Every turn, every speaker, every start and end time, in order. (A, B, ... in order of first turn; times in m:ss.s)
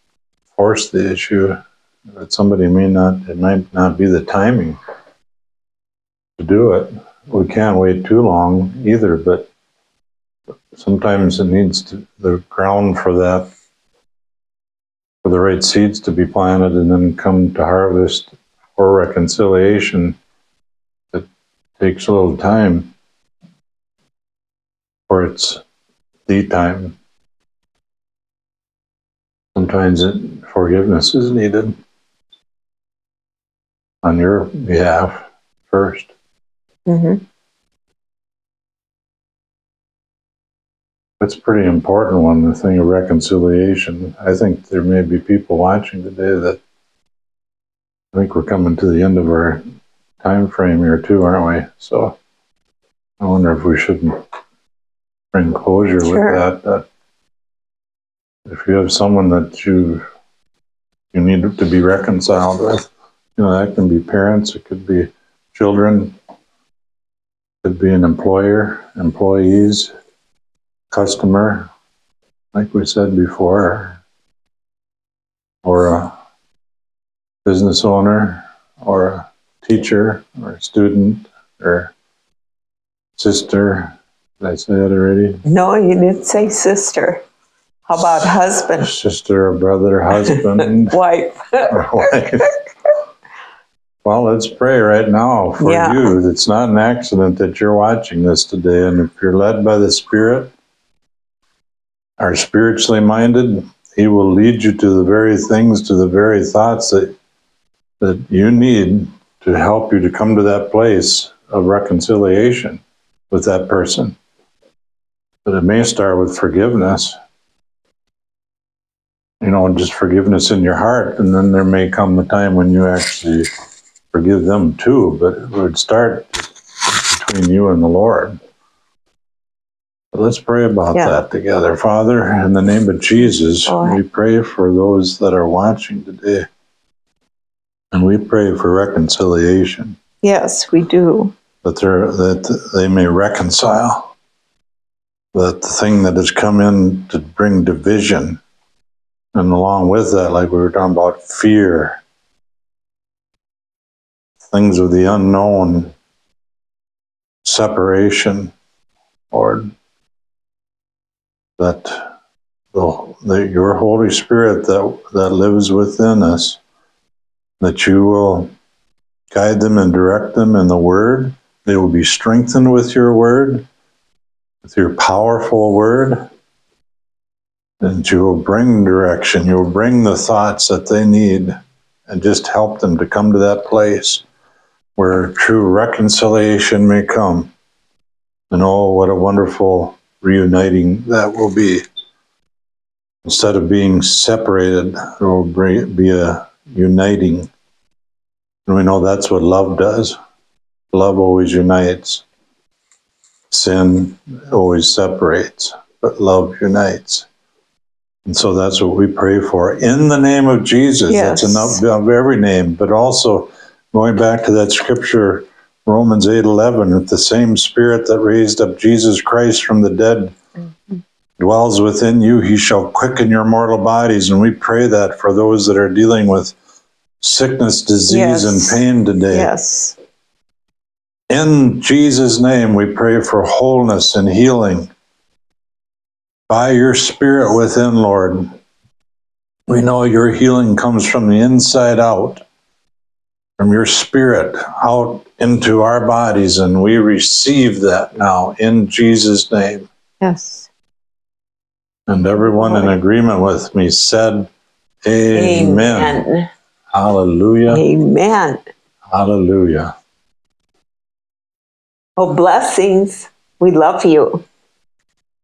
0:00.5-0:04.8 A
0:06.4-0:09.5 A
0:10.7-0:13.5 A
0:15.2-0:20.2 A
0:21.8-0:22.9 A
0:25.1-0:25.6 A
0:26.2-0:27.0 A
0:29.5-0:31.8 A
0:34.0-0:36.1 A
0:36.8-0:37.2 B
0:41.2-0:46.6 A
0:48.1-0:49.6 A
0:50.2-0:52.2 A
0:53.2-0:54.2 A
0:55.3-0:56.9 A
0:56.0-0:56.4 B
0:58.4-1:00.0 A
1:01.1-1:06.2 A
1:07.6-1:09.9 A
1:10.9-1:11.7 A
1:12.5-1:14.0 A
1:15.6-1:16.1 A
1:17.4-1:21.9 A
1:23.2-1:25.4 A
1:25.4-1:27.2 B
1:27.9-1:28.9 B
1:28.0-1:31.0 A
1:30.2-1:32.5 B
1:31.7-1:32.5 A
1:34.0-1:40.5 A
1:35.6-1:36.1 B
1:42.2-1:47.1 A
1:48.0-1:54.2 A
1:55.4-1:57.2 A
1:59.4-2:03.5 A
2:04.1-2:08.4 A
2:10.1-2:16.5 A
2:10.9-2:11.2 B
2:13.6-2:14.0 B
2:17.9-2:20.0 A
2:20.2-2:21.3 B
2:21.6-2:24.1 A
2:25.3-2:28.4 A
2:29.3-2:32.0 A
2:34.4-2:35.9 A
2:37.4-2:38.5 A
2:39.3-2:39.7 A
2:41.6-2:42.1 A
2:42.7-2:46.6 A
2:47.6-2:48.5 A
2:49.3-2:53.6 A
2:54.6-2:56.3 A
2:57.8-3:01.6 A
3:02.1-3:04.2 A
3:05.0-3:07.5 A
3:08.5-3:11.8 A
3:13.2-3:17.5 A
3:18.6-3:20.2 A
3:20.9-3:22.2 A
3:23.5-3:27.3 A
3:28.2-3:40.3 A
3:31.1-3:31.8 B
3:41.4-3:46.5 A
3:47.2-3:49.5 A
3:48.1-3:50.0 B
3:51.3-3:54.9 A
3:56.5-3:58.5 A
3:59.7-4:02.4 A
4:03.6-4:09.9 A
4:10.2-4:10.7 B
4:12.1-4:14.5 A
4:12.6-4:12.9 B
4:15.0-4:16.2 A
4:15.3-4:16.5 B
4:16.9-4:17.8 A
4:17.7-4:18.6 B
4:19.1-4:19.9 A
4:22.2-4:24.4 B